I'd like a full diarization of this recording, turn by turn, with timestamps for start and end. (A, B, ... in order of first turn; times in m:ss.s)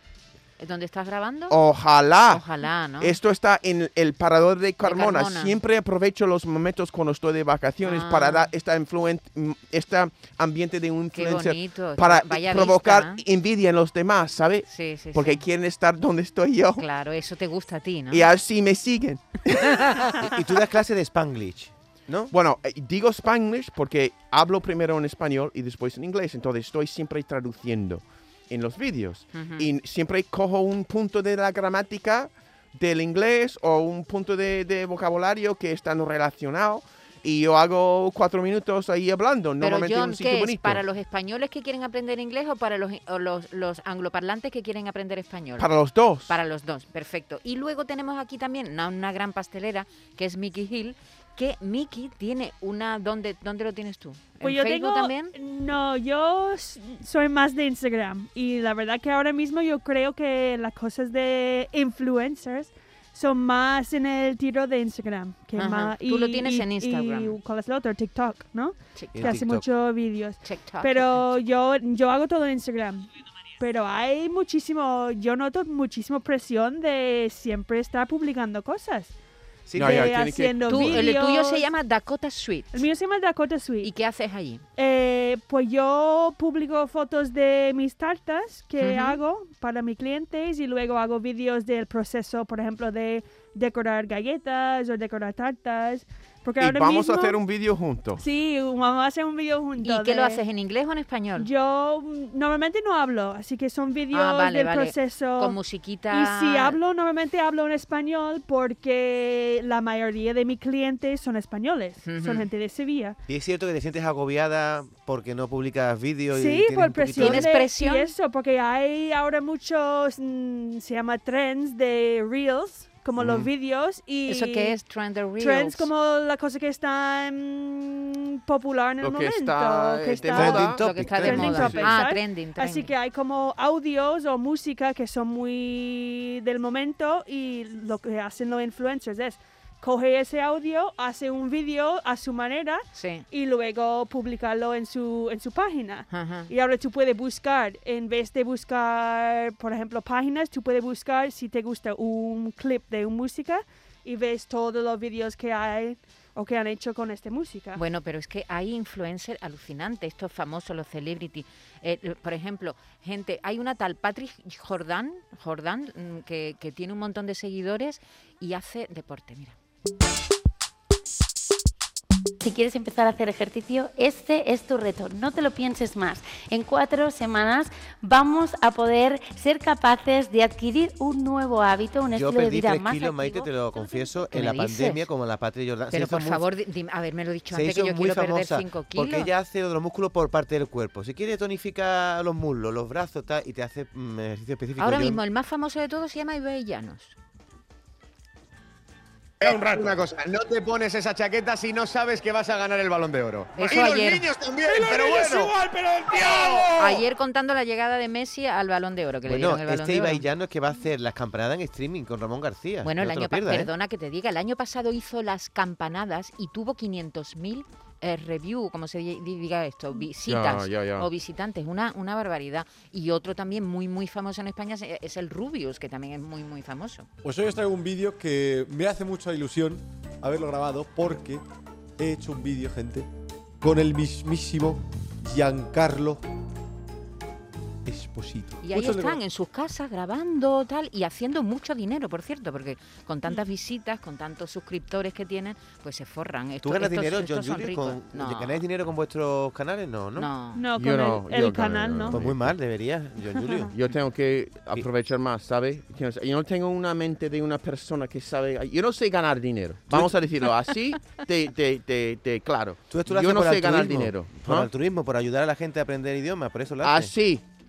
0:00.6-0:01.6 A
0:01.5-0:02.4 B
0:02.2-0:03.2 A
0:03.0-0:16.8 B
0:04.8-0:05.6 A
0:07.8-0:08.5 A
0:11.1-0:13.2 A
0:14.6-0:15.4 A
0:16.8-0:18.3 A
0:18.1-0:20.0 B
0:20.2-0:22.3 C
0:22.3-0:40.8 B
0:29.3-0:29.7 A
0:39.6-0:45.7 A
0:45.6-0:46.3 B
0:46.3-0:55.3 A
0:54.4-1:19.1 D
1:05.6-1:07.4 A
1:08.9-1:09.4 A
1:09.1-1:09.6 C
1:10.4-1:11.2 A
1:19.7-1:20.1 C
1:19.7-1:21.1 B
1:19.8-1:21.7 D
1:20.6-1:22.9 A
1:22.7-1:23.9 D
1:23.8-1:24.6 A
1:24.8-1:37.4 D
1:28.8-1:29.2 A
1:36.6-1:38.2 B
1:38.2-1:40.4 D
1:39.8-1:41.5 A
1:41.4-1:45.6 D
1:44.1-1:46.8 A
1:46.1-1:53.2 D
1:52.0-1:52.4 A
1:53.3-1:57.5 C
1:56.3-2:04.8 D
1:57.2-1:58.1 A
2:04.3-2:05.9 A
2:05.4-2:10.7 D
2:09.0-2:11.9 B
2:10.3-2:11.8 C
2:10.5-2:12.9 A
2:11.2-2:37.8 D
2:22.9-2:23.2 A
2:26.1-2:26.5 A
2:37.7-2:49.6 A
2:52.4-3:03.4 E
3:02.1-3:06.4 C
3:03.4-3:05.1 A
3:05.9-3:09.3 A
3:07.5-3:15.2 C
3:14.8-3:17.2 A
3:19.4-3:27.0 F
3:23.6-3:24.2 A
3:25.0-3:25.3 B
3:26.8-3:30.2 A
3:29.2-3:33.7 C
3:32.8-3:47.1 A
3:40.2-3:41.1 B
3:47.2-3:51.4 G
3:52.0-3:53.1 G
3:53.6-3:56.2 G
3:57.8-3:59.2 G
3:58.6-4:08.6 A
4:06.6-4:10.3 C
4:10.2-4:10.6 A
4:10.5-4:12.2 D
4:10.8-4:12.5 B
4:12.1-4:13.7 C
4:13.3-4:13.7 D
4:13.7-4:24.7 B
4:19.9-4:20.1 C
4:22.9-4:27.1 C
4:26.8-4:27.4 B